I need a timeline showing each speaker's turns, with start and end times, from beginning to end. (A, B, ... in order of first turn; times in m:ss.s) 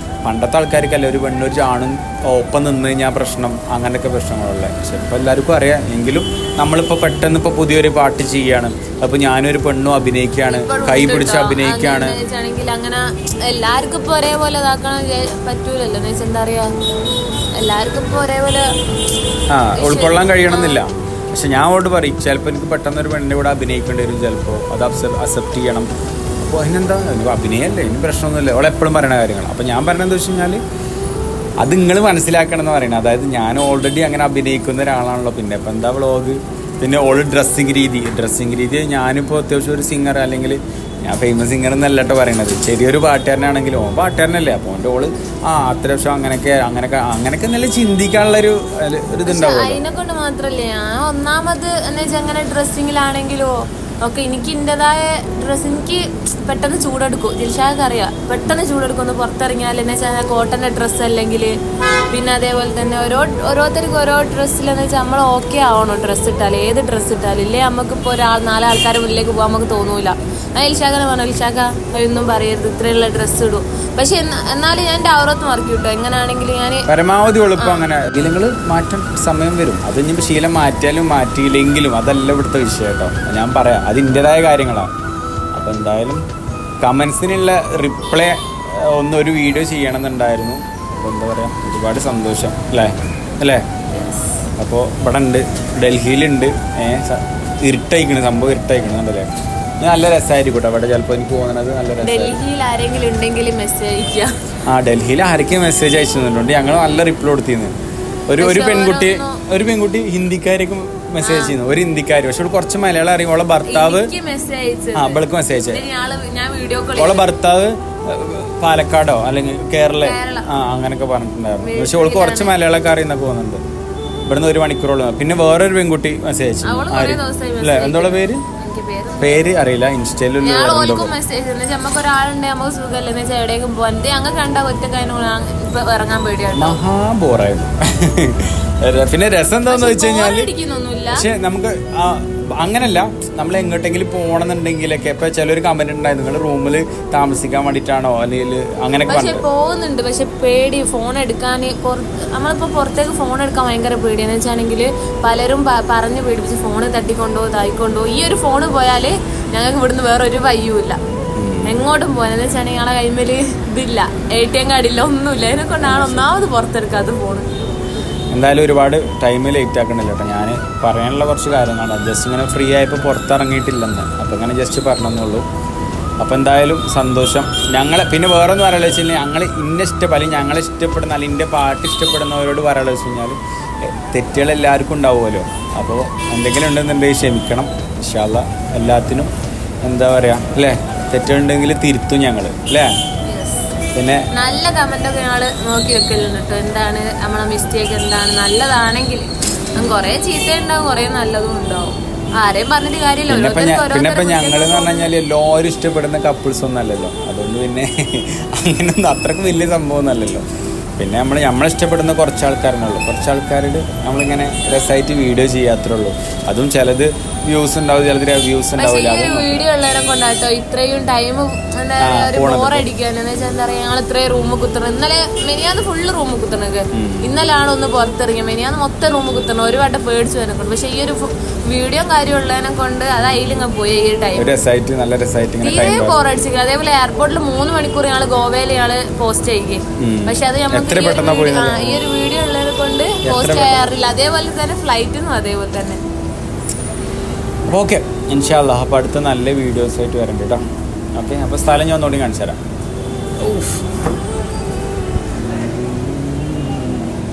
0:00.2-0:12.2 A
0:10.5-0:16.7 B
0:17.6-0:18.7 B
0:19.5-0:25.9 A
0:19.8-0:20.8 B
0:26.4-0:30.6 A
0:31.6-0:49.8 A
0:49.3-1:01.6 B
1:02.1-1:16.9 B
1:16.9-1:24.9 A
1:17.6-1:17.9 B
1:25.6-1:26.2 A
1:26.8-1:33.6 A
1:34.0-1:34.4 B
1:34.6-1:39.3 A
1:39.8-1:42.4 A
1:42.0-1:44.3 B
1:44.7-1:47.7 A
1:48.3-1:54.1 A
1:48.4-1:49.4 B
1:51.2-1:51.6 B
1:53.7-1:57.3 B
1:55.0-1:55.8 A
1:57.0-2:03.6 A
2:00.0-2:00.5 B
2:01.6-2:02.6 B
2:04.3-2:08.4 A
2:06.6-2:09.5 B
2:09.2-2:11.1 A
2:10.4-2:16.8 B
2:16.6-2:20.5 A
2:19.7-2:21.2 B
2:21.1-2:29.4 A
2:29.1-2:41.0 B
2:41.4-2:41.8 A
2:41.7-2:47.5 B
2:45.8-2:46.3 A
2:48.3-2:55.5 A
2:56.2-3:09.3 A
3:09.8-3:12.9 A
3:13.3-3:13.7 B
3:13.9-3:14.3 A
3:14.3-3:25.1 B
3:23.3-3:30.4 A
3:31.0-3:39.6 A
3:38.8-3:54.5 B
3:42.0-3:42.9 A
3:46.9-3:47.3 A
3:54.4-3:56.2 A
3:55.6-4:06.0 B
4:00.0-4:02.0 A
4:03.2-4:03.9 A
4:07.7-4:10.6 A
4:11.2-4:12.6 A
4:13.4-4:13.8 A